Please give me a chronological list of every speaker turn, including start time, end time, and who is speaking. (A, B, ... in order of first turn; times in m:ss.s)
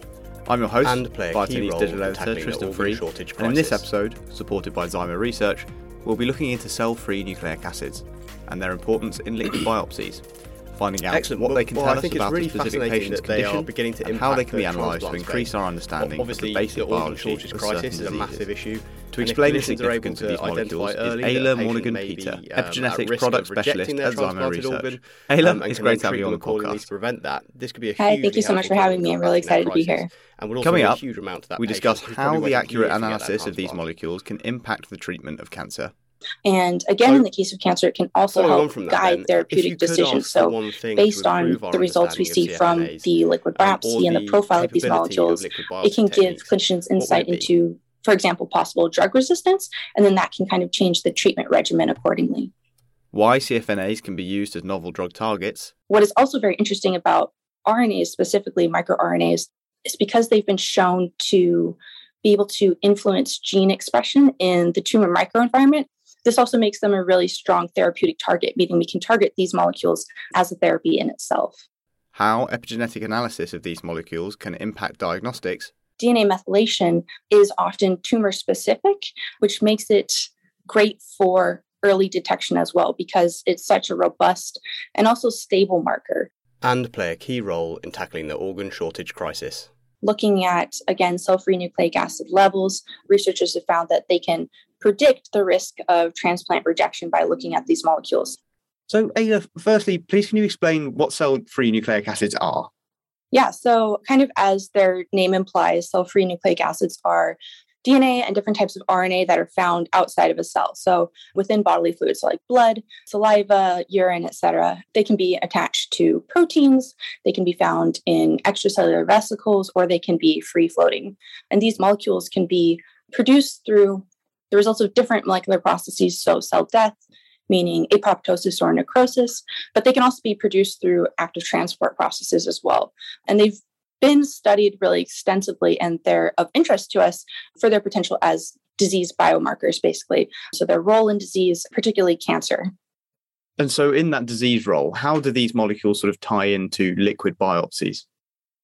0:00.4-0:18.5 A
0:00.8-0:03.8 B
0:11.1-0:33.8 B
0:19.1-0:26.9 A
0:28.0-0:30.1 C
0:30.6-0:31.0 A
0:31.6-0:35.9 A
0:36.4-0:52.5 C
0:38.3-0:47.5 B
0:53.1-0:55.7 A
0:55.9-1:11.6 C
1:12.1-1:15.7 A
1:16.0-1:26.3 C
1:26.6-1:29.7 B
1:30.0-1:38.4 C
1:38.9-1:42.7 A
1:43.3-2:22.7 C
2:23.6-2:28.0 A